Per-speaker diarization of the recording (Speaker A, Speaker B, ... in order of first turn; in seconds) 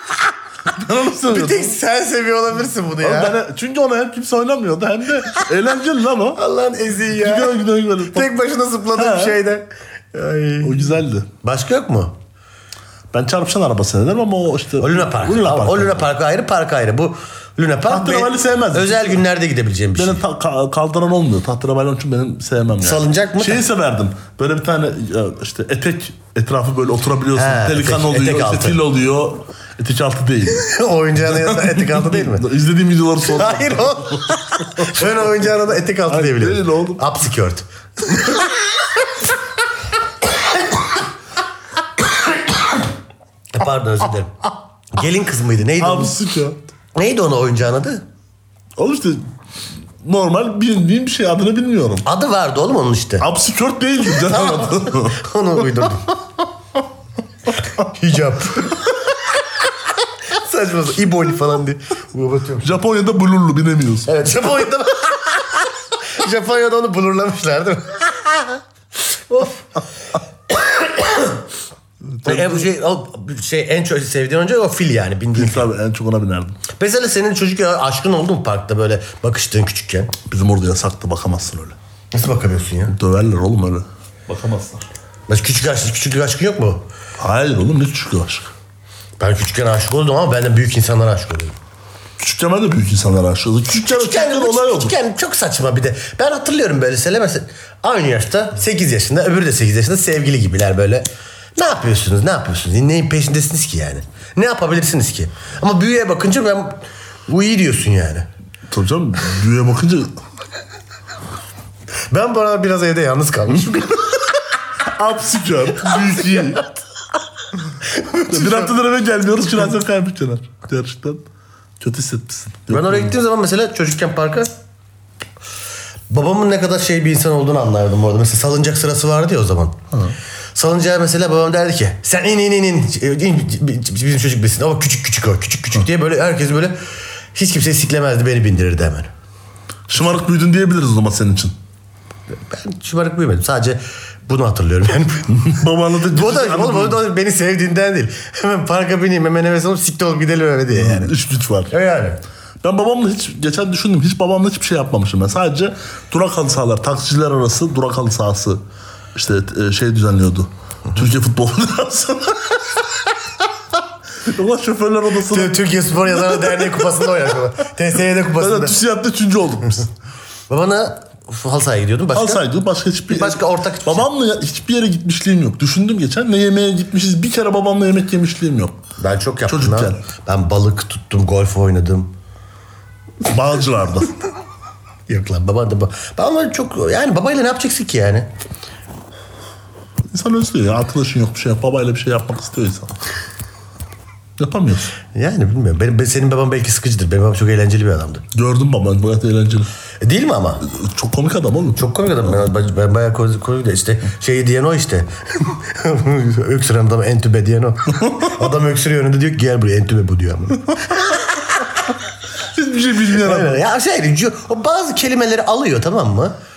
Speaker A: 0.7-1.8, 3.0-6.4, 7.1-8.3, 8.9-9.4, 10.6-11.3, 13.1-16.1, 17.9-19.2, 19.9-30.6, 31.2-35.3, 36.1-37.0, 45.8-46.6, 48.8-49.2, 50.0-52.0, 53.2-55.2, 62.6-64.1, 72.2-72.7, 75.3-76.6, 80.3-81.8, 82.9-84.8, 87.2-88.5, 92.2-94.9, 108.7-110.1, 114.8-116.7, 118.3-121.2, 121.8-123.1, 139.9-141.5, 145.3-147.0, 150.7-151.7, 152.6-158.6, 159.1-162.8, 164.2-166.9, 168.3-169.8, 172.1-178.8, 179.4-180.0, 183.2-184.1, 190.1-193.0, 194.4-194.9, 198.3-199.7, 200.6-201.9, 212.5-213.6
Speaker B: 1.2-3.4, 6.3-7.6, 8.1-10.9, 11.4-12.1, 14.8-20.2, 22.8-23.6, 27.4-28.8, 30.5-32.5, 33.3-38.6, 43.5-44.4, 44.9-46.1, 46.9-48.0, 52.0-53.2, 54.2-56.1, 57.6-58.9, 60.2-62.8, 64.0-69.7, 70.5-71.4, 72.2-75.7, 76.8-80.1, 82.1-82.9, 85.3-86.8, 89.2-91.5, 93.8-108.2, 112.1-114.2, 117.8-118.7, 122.7-124.5, 126.1-129.8, 130.5-136.8, 137.3-139.1, 142.4-151.1, 151.7-152.2, 165.3-168.8, 170.5-172.4, 173.1-174.1, 179.0-182.1, 185.1-188.3, 195.1-198.2, 200.0-200.7, 201.8-211.7, 213.2-216.3